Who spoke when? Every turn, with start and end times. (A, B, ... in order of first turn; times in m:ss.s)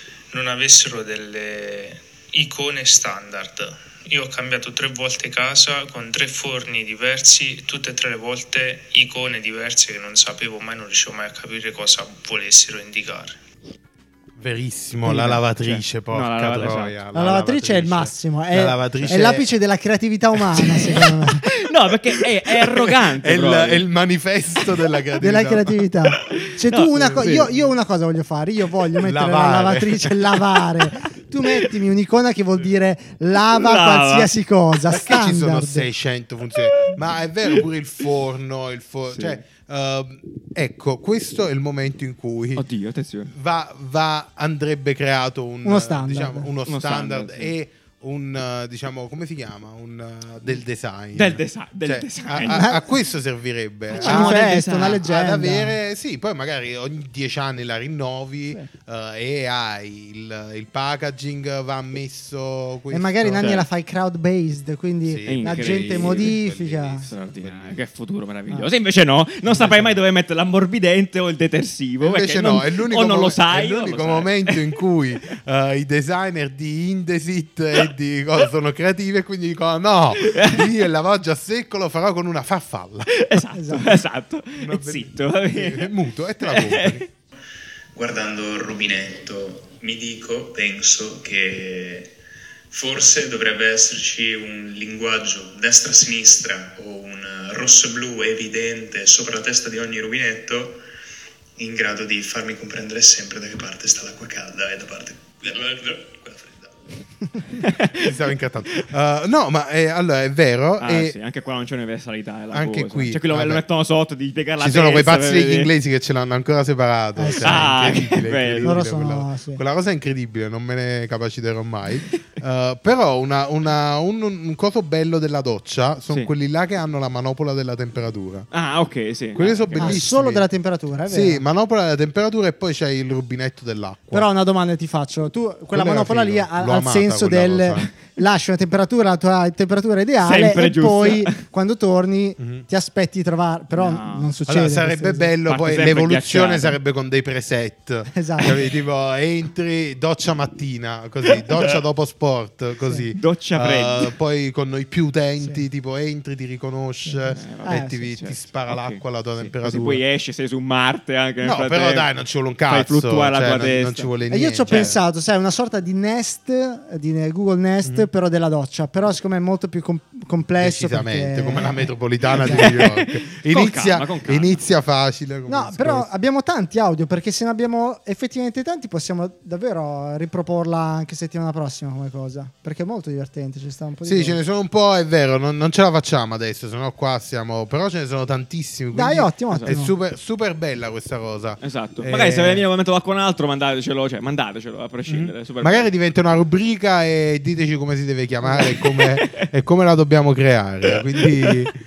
0:00.3-0:13.4 A
0:14.4-0:19.5 B
0:15.0-0:16.9 C
0:17.1-0:21.4 D
0:21.4-0:23.8 C
0:22.2-0:25.8 B
0:25.2-0:35.9 D
0:26.3-0:27.5 C
0:29.0-0:30.4 B
0:33.5-0:34.3 C
0:34.9-0:42.6 B
0:39.1-0:39.4 C
0:42.6-0:43.3 C
0:43.3-1:03.5 B
0:45.6-0:46.5 D
0:46.6-0:47.5 C
0:51.1-0:52.8 C
0:52.5-0:52.8 D
0:54.0-0:55.0 C
0:54.0-0:55.7 D
1:02.9-1:07.1 D
1:03.4-1:03.6 C
1:05.0-1:07.8 B
1:05.3-1:06.4 C
1:07.0-1:14.7 C
1:09.4-1:10.0 B
1:12.0-1:23.1 B
1:20.2-1:20.7 C
1:23.1-1:25.9 C
1:23.5-1:23.9 D
1:24.6-1:27.0 B
1:26.4-1:27.0 C
1:27.9-1:32.1 A
1:32.7-1:40.8 A
1:41.6-1:46.7 A
1:47.6-1:48.9 C
1:48.0-1:51.2 B
1:50.8-1:55.7 C
1:52.5-1:53.6 B
1:54.6-2:08.5 B
1:57.2-1:58.0 D
1:57.4-1:58.8 C
1:58.6-1:59.6 D
2:08.5-2:10.0 C
2:09.4-2:10.5 B
2:09.8-2:11.4 D
2:11.1-2:14.3 B
2:14.1-2:25.3 D
2:15.7-2:17.9 B
2:20.2-2:21.4 C
2:22.4-2:22.6 B
2:23.7-2:24.3 C
2:24.5-2:40.0 B
2:25.4-2:26.8 C
2:28.1-2:28.6 D
2:31.2-2:31.8 C
2:33.1-2:34.1 C
2:37.0-2:38.1 D
2:37.3-2:42.1 C
2:41.4-2:45.0 B
2:42.7-2:44.1 C
2:44.3-2:52.7 D
2:44.7-2:44.9 C
2:47.8-2:48.1 B
2:50.6-2:56.1 B
2:52.4-2:54.6 C
2:55.5-3:04.4 D
3:04.0-3:12.6 B
3:08.9-3:09.9 D
3:11.6-3:15.9 C
3:15.1-3:21.7 B
3:18.4-3:19.5 C
3:20.8-3:21.7 C